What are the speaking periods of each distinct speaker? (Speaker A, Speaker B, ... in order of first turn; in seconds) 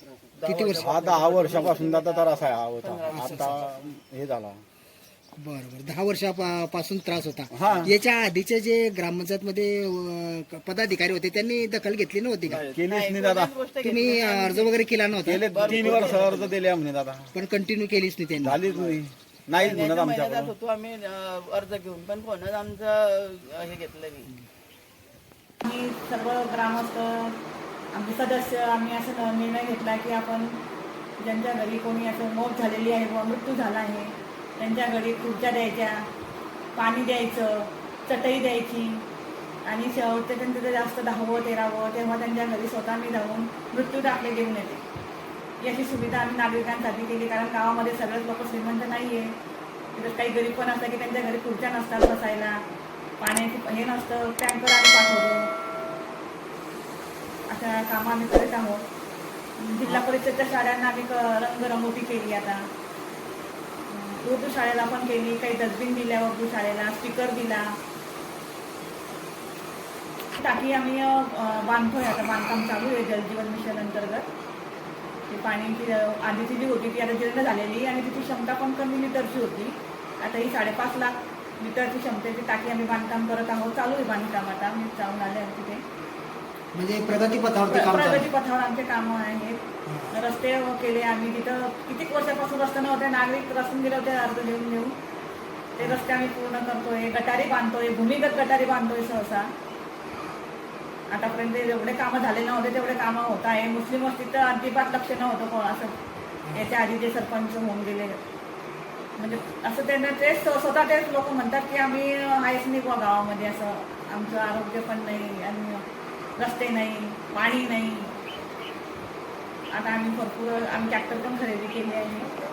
Speaker A: 0.4-3.7, 12.5-14.8, 15.4-16.6, 18.7-19.0, 19.5-24.3
Speaker B: 0.5-0.9, 3.1-3.5, 5.4-12.6, 13.8-15.4, 17.3-18.6, 86.7-88.3, 89.9-90.1
Speaker C: 0.8-4.6, 7.5-8.0, 12.5-13.5, 15.2-17.3, 18.4-20.5
Speaker D: 25.6-27.4, 27.9-30.6, 31.2-36.0, 36.8-39.0, 39.7-44.8, 45.6-49.3, 50.0-52.6, 53.2-55.5, 57.5-58.9, 59.6-62.7, 63.9-67.8, 70.4-74.3, 75.3-85.8, 87.2-94.9, 95.8-99.5, 101.1-105.9, 106.5-108.2, 109.2-115.8, 116.4-118.1, 119.7-122.3